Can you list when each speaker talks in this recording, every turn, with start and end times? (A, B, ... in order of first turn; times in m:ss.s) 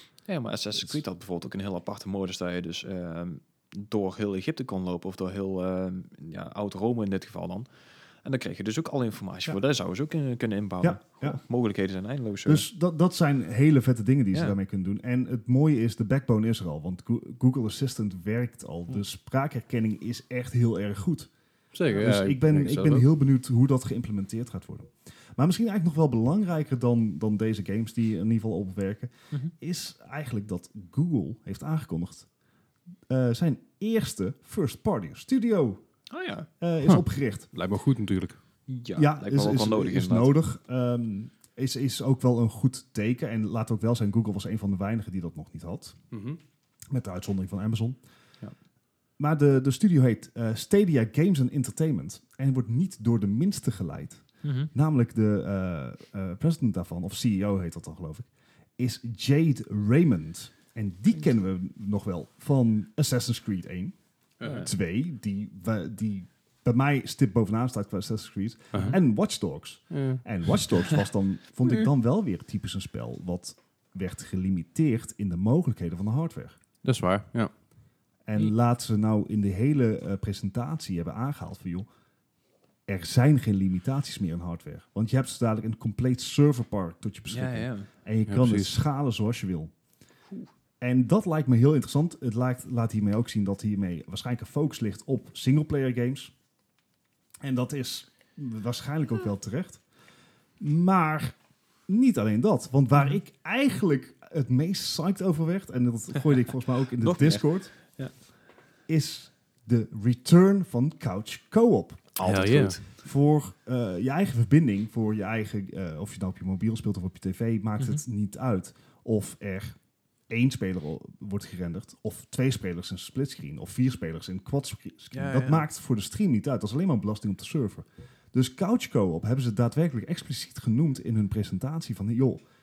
0:00.3-0:07.7 A
0:00.8-0:01.0 B
0:08.2-0:12.7 A
0:10.8-0:11.4 B
0:12.5-0:21.3 B
0:21.7-0:23.1 C
0:21.9-0:32.3 B
0:33.1-0:35.8 B
0:36.1-0:36.5 A
0:36.6-0:37.5 B
0:37.5-0:38.4 C
0:38.7-0:40.4 A
0:39.0-0:46.0 B
0:46.1-0:46.4 C
0:46.9-0:48.0 B
0:49.2-1:04.0 B
0:54.4-0:54.7 A
1:04.4-1:04.7 C
1:04.6-1:16.6 B
1:09.9-1:10.2 C
1:16.8-1:17.5 C
1:18.3-1:21.9 B
1:22.9-1:29.7 B
1:27.3-1:27.9 A
1:28.3-1:28.8 C
1:30.8-1:36.3 B
1:37.4-1:39.8 B
1:40.6-1:41.4 B
1:41.9-1:47.7 B
1:47.0-1:48.1 A
1:48.9-1:52.2 B
1:52.2-1:52.9 A
1:52.2-1:52.8 C
1:53.0-1:59.8 B
2:00.3-2:12.4 B
2:05.1-2:05.6 A